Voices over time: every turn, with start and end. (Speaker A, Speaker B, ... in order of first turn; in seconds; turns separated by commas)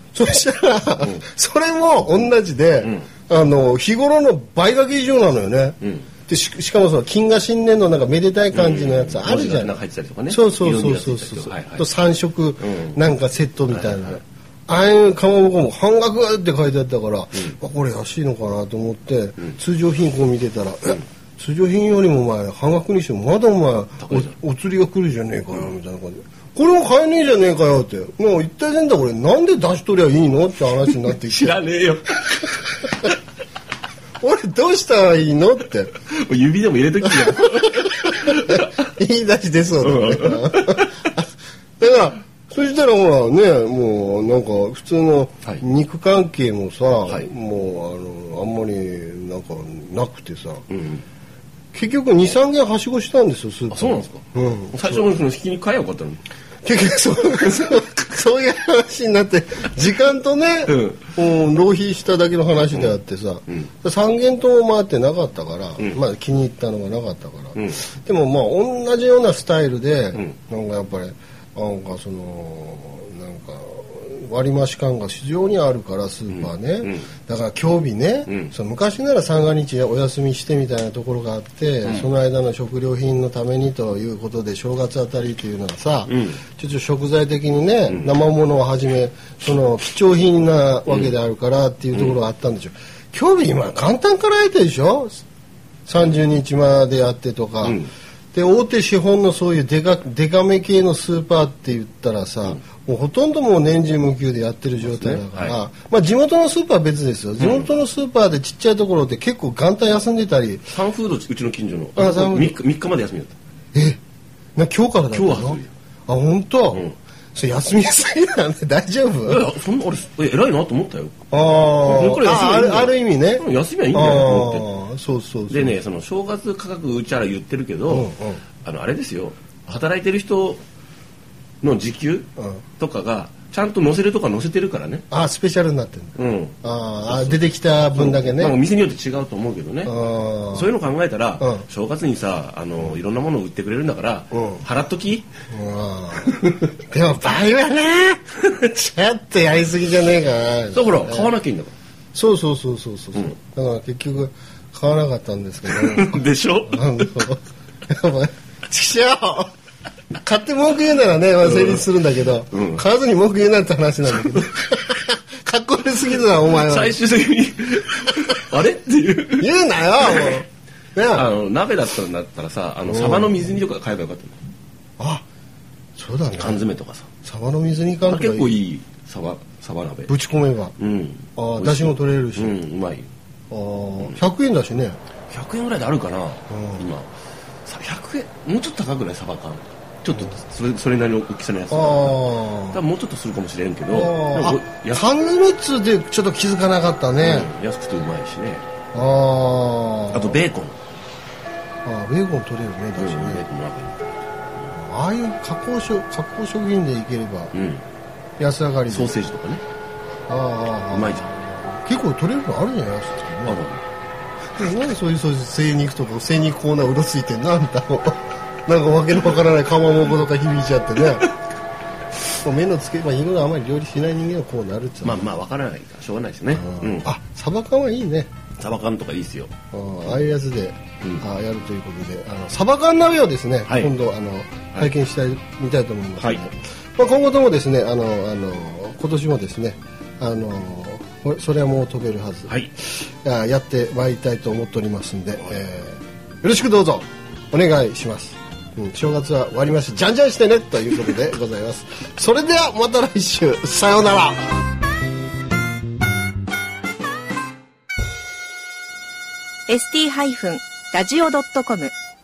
Speaker A: 0.1-9.8, Speaker B: 5.8-6.1, Speaker B: 8.5-11.9, Speaker A: 10.3-31.6, Speaker B: 12.6-13.0, Speaker B: 13.7-14.2, Speaker B: 24.0-24.3, Speaker B: 30.9-33.1, Speaker A: 34.2-35.9, Speaker B: 36.0-38.8, Speaker A: 37.3-41.3, Speaker B: 39.8-41.0, Speaker A: 41.8-50.6, Speaker B: 50.7-51.0, Speaker A: 51.7-55.1, Speaker B: 53.7-56.2, Speaker A: 56.6-95.2, Speaker B: 60.7-61.1, Speaker B: 67.5-67.8, Speaker B: 76.3-77.1, Speaker B: 78.3-78.5, Speaker B: 81.8-82.1, Speaker B: 86.1-86.4, Speaker B: 90.9-91.2, Speaker B: 91.9-92.2, Speaker A: 95.9-110.7, Speaker B: 97.6-97.9, Speaker B: 104.8-105.6, Speaker B: 107.4-107.7, Speaker B: 110.7-113.4, Speaker A: 112.0-112.6, Speaker A: 113.7-114.0, Speaker A: 114.6-119.5, Speaker B: 115.1-115.7, Speaker B: 119.3-121.2, Speaker A: 121.3-125.8, Speaker B: 121.8-124.7, Speaker B: 125.5-128.1, Speaker A: 127.9-128.4, Speaker B: 128.6-130.6, Speaker B: 131.6-135.1, Speaker A: 132.4-132.6, Speaker A: 135.1-138.6, Speaker B: 136.2-136.6, Speaker B: 137.1-140.0, Speaker A: 139.8-140.7, Speaker B: 140.5-145.3, Speaker A: 141.4-141.7, Speaker A: 144.3-144.6, Speaker A: 145.5-146.3, Speaker B: 146.2-146.7, Speaker A: 146.9-151.3, Speaker B: 150.7-151.8, Speaker A: 152.1-159.5, Speaker B: 155.7-157.2, Speaker A: 160.2-167.0, Speaker B: 161.4-161.9, Speaker B: 162.5-162.8, Speaker B: 166.6-170.4, Speaker A: 169.4-171.3, Speaker B: 171.1-174.4, Speaker A: 172.9-173.5, Speaker A: 175.0-175.2, Speaker A: 176.0-176.7, Speaker B: 176.4-177.1, Speaker A: 177.2-178.6, Speaker B: 178.0-180.2, Speaker A: 180.1-180.8, Speaker B: 180.8-183.1, Speaker A: 181.4-182.6, Speaker A: 183.5-185.0, Speaker B: 185.3-187.1, Speaker A: 186.5-186.9, Speaker B: 187.7-195.1, Speaker A: 191.7-192.8, Speaker A: 193.9-197.5, Speaker B: 197.2-198.7, Speaker A: 198.9-200.4, Speaker B: 200.1-200.8, Speaker A: 201.8-203.4, Speaker B: 203.0-204.0, Speaker A: 204.7-207.5, Speaker B: 207.5-207.8, Speaker A: 208.4-209.1, Speaker B: 208.9-209.6, Speaker A: 210.3-213.6, Speaker B: 210.9-211.3, Speaker B: 213.4-213.8, Speaker A: 214.6-221.3, Speaker A: 222.4-225.2, Speaker B: 225.0-227.1, Speaker A: 226.5-228.3, Speaker B: 228.6-229.5, Speaker A: 229.7-242.6, Speaker B: 233.7-233.9, Speaker A: 243.2-254.5, Speaker C: 259.7-261.9